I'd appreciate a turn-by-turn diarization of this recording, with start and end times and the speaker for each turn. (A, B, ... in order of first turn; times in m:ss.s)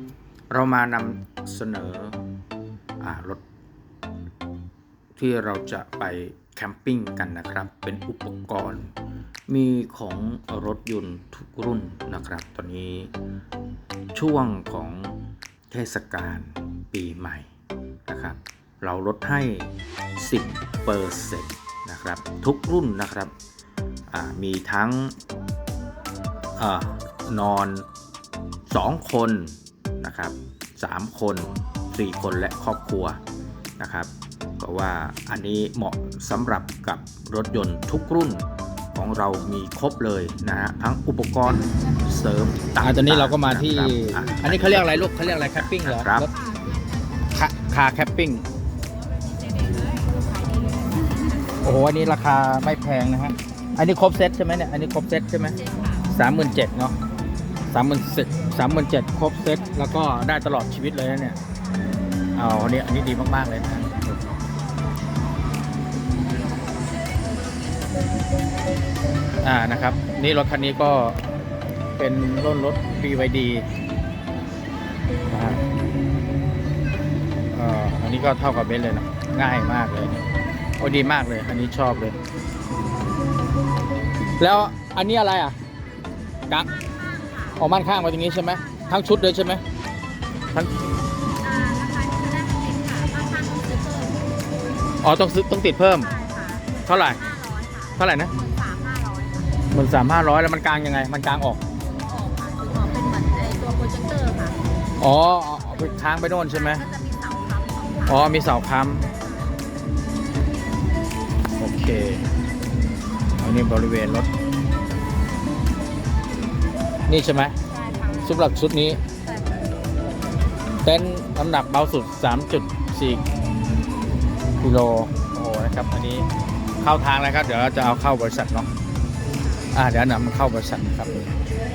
0:00.5-0:02.2 A
0:03.0-0:03.4 A
0:05.2-0:08.9 A
0:09.5-0:13.1 A
0:14.1-0:15.2 A
0:15.7-0:17.5 A
0:18.1-0:23.3 A
0:24.1-0:25.2 A
0:26.6-0:27.9 A
0:28.7-0:33.2 A
0:33.8-0:46.3 A
0:42.8-0:46.3 B
0:47.3-0:48.4 B
0:49.3-0:51.4 C
0:51.6-0:55.6 B
0:55.6-0:56.0 C
0:56.1-0:57.0 B
0:57.7-1:01.4 B
1:02.3-1:04.1 B
1:09.4-1:11.2 B
1:12.0-1:13.6 B
1:15.3-1:15.6 B
1:17.5-1:20.2 B
1:20.8-1:22.2 B
1:24.4-1:25.6 B
1:26.6-1:29.4 C
1:27.6-1:29.6 B
1:31.4-1:34.2 C
1:35.0-1:36.1 B
1:36.0-1:39.6 C
1:36.9-1:37.2 B
1:38.0-1:38.3 B
1:39.7-1:41.6 B
1:41.8-1:44.6 C
1:45.0-1:46.8 B
1:45.7-1:48.4 C
1:48.1-1:49.0 B
1:49.0-1:49.5 C
1:51.6-1:52.3 B
1:53.4-1:54.3 B
1:57.1-1:57.6 B
1:57.6-1:58.3 C
1:58.2-1:59.0 B
1:59.3-1:59.6 C
2:00.8-2:03.2 B
2:04.6-2:06.3 B
2:06.8-2:08.7 B
2:09.7-2:11.3 B